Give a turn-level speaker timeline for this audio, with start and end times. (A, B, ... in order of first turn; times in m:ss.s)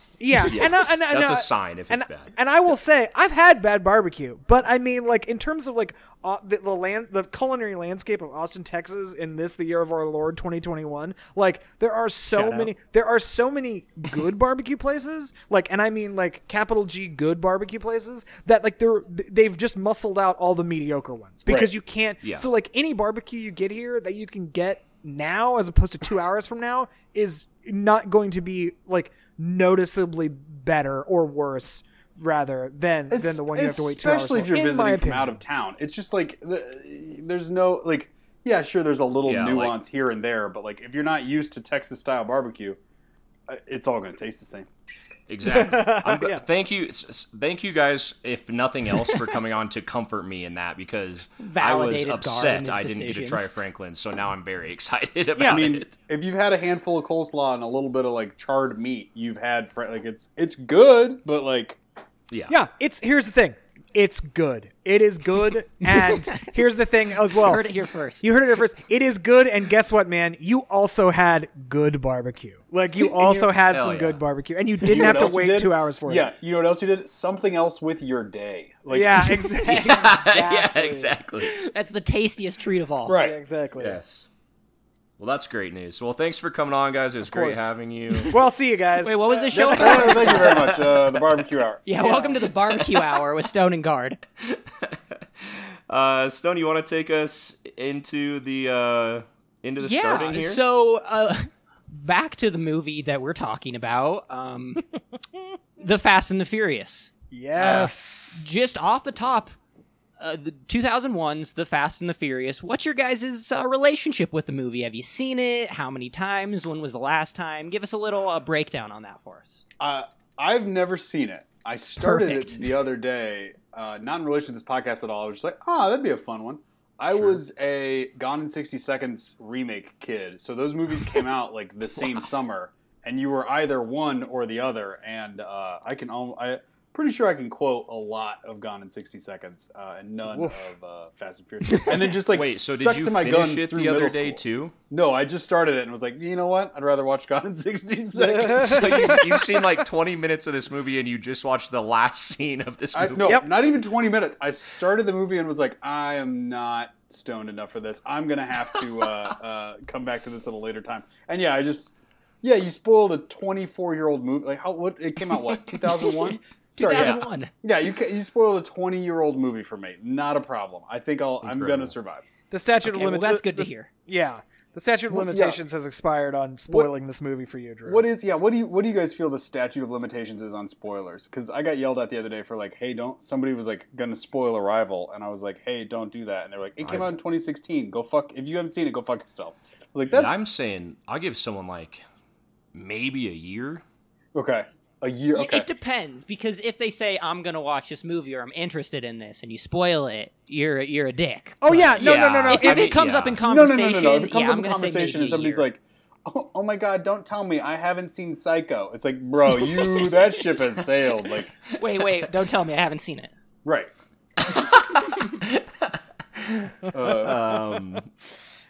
0:00.2-0:35.4 A
0:00.4-0:02.3 B
0:21.5-0:21.7 C
0:22.2-0:22.5 B
0:33.1-0:42.8 C
0:39.2-0:39.8 B
0:43.5-0:44.7 C
0:45.3-0:55.9 B
0:45.5-0:46.4 A
0:51.4-0:53.5 D
0:55.4-0:55.6 A
0:55.4-1:01.8 C
1:02.3-1:02.6 B
1:02.5-1:07.7 A
1:07.3-1:08.3 D
1:08.2-1:16.3 A
1:13.0-1:13.5 C
1:13.7-1:14.2 B
1:14.8-1:19.8 C
1:18.9-1:21.1 A
1:19.6-1:21.5 B
1:21.4-1:23.2 D
1:23.1-1:23.4 C
1:23.1-1:24.0 A
1:23.8-1:24.3 B
1:25.2-1:28.3 B
1:27.3-1:27.7 A
1:28.3-1:30.7 A
1:29.0-1:30.8 D
1:29.5-1:31.9 C
1:31.9-1:34.2 D
1:32.0-1:32.4 A
1:34.4-1:35.0 B
1:35.9-1:40.6 B
1:39.8-1:44.8 D
1:45.8-1:49.5 D
1:47.3-1:48.5 A
1:50.2-1:59.6 D
1:59.8-2:29.2 C
2:02.0-2:02.6 D
2:07.1-2:07.4 B
2:21.7-2:22.1 D
2:22.2-2:24.7 B
2:28.2-2:29.2 A
2:28.5-2:33.4 B
2:32.9-2:52.2 C
2:46.8-2:47.5 D
2:46.9-2:47.2 B
2:51.4-2:51.9 B
2:52.5-2:58.0 A
2:52.8-2:53.9 D
2:55.1-2:55.6 C
2:57.9-3:10.4 C
3:06.8-3:07.1 B
3:10.1-3:12.0 B
3:12.7-3:13.8 B
3:14.3-3:15.7 C
3:15.3-3:25.7 D
3:21.6-3:23.0 A
3:21.9-3:23.4 B
3:23.4-3:31.5 C
3:31.7-3:33.3 D
3:33.6-3:33.9 C
3:34.5-3:38.1 B
3:36.9-3:37.4 C